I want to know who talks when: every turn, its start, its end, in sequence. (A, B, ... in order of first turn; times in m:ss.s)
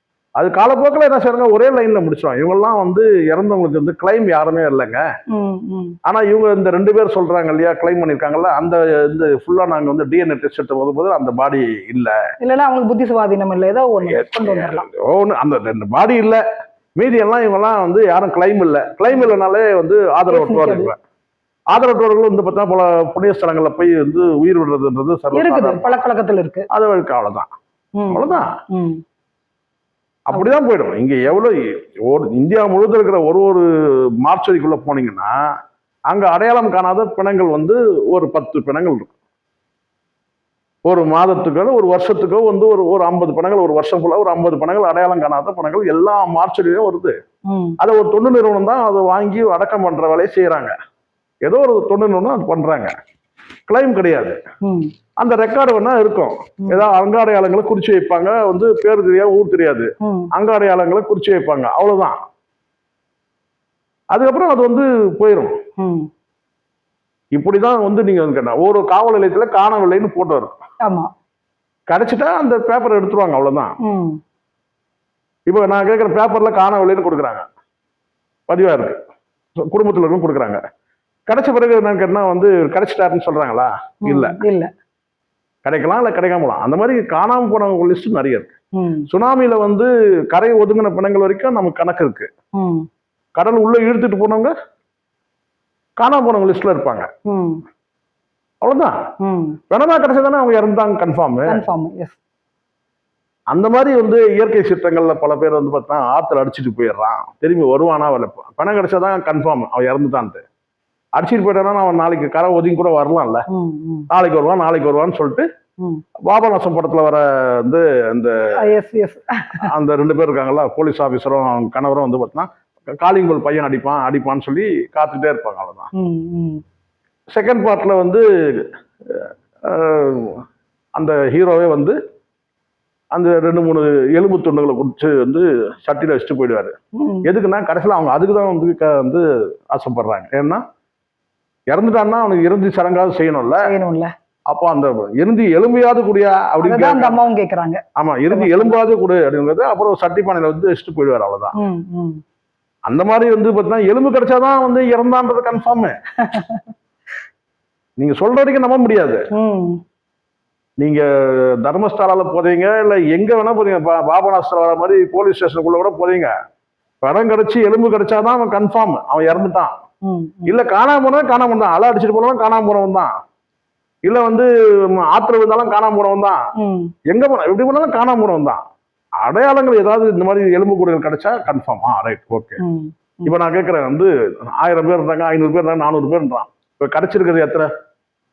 0:00.4-0:05.0 A
0:05.3-0:06.0 B
0:06.0-0:12.2 A
0:12.4-0:14.8 B
0:14.0-0:16.4 A
0:17.0-0:20.9 A
0:20.3-0:20.9 B
0:21.7-0:26.0 A
0:25.3-0:26.7 B
0:26.7-0:27.5 A
0:28.0-0:29.0 B
0:28.1-0:28.5 A
0:30.3-0:33.7 A
0:34.2-0:35.3 A
0:36.1-0:39.1 A
0:40.8-0:47.2 A
0:47.5-0:47.8 B
0:47.8-0:50.7 A
0:51.4-0:52.9 A
0:53.7-0:54.4 A
0:54.6-0:54.9 B
0:55.2-1:02.1 A
1:00.0-1:00.3 B
1:04.1-1:05.5 A
1:05.8-1:06.1 B
1:07.3-1:10.5 A
1:10.8-1:11.1 B
1:11.9-1:13.7 A
1:13.8-1:14.2 B
1:15.5-1:17.4 A
1:18.5-1:19.0 A
1:19.7-1:20.6 A
1:21.3-1:24.4 A
1:24.0-1:24.7 B
1:25.6-1:28.5 A
1:28.8-1:29.1 B
1:29.1-1:32.3 A
1:32.6-1:32.9 B
1:33.4-1:34.5 A
1:36.0-1:37.1 A
1:37.2-1:37.6 B
1:38.6-1:39.0 A
1:39.2-1:39.6 B
1:39.7-1:41.6 A
1:41.4-1:42.2 B
1:43.5-1:50.4 A
1:51.2-1:53.4 A
1:53.5-1:54.1 B
1:54.1-1:55.5 A
1:56.2-1:58.3 A
1:58.6-1:59.7 B
1:59.6-2:02.5 A
2:03.0-2:05.9 A
2:05.9-2:06.6 B
2:07.3-2:10.4 A
2:11.0-2:12.0 A
2:13.1-2:20.6 A
2:17.0-2:17.3 B
2:21.7-2:23.6 A
2:23.6-2:24.1 B
2:24.5-2:27.2 A
2:26.6-2:28.8 B
2:28.0-2:31.5 A
2:31.6-2:32.2 B
2:32.9-2:36.0 A
2:36.2-2:36.6 B
2:38.0-2:39.2 A
2:39.3-2:39.8 B
2:40.8-2:46.3 A
2:47.0-2:49.7 A
2:50.0-2:50.5 B
2:50.4-2:53.1 A
2:54.0-2:56.4 A
2:56.6-2:56.9 B
2:57.1-2:58.6 A
2:59.2-3:02.6 A
3:02.6-3:03.3 B
3:03.2-3:07.7 A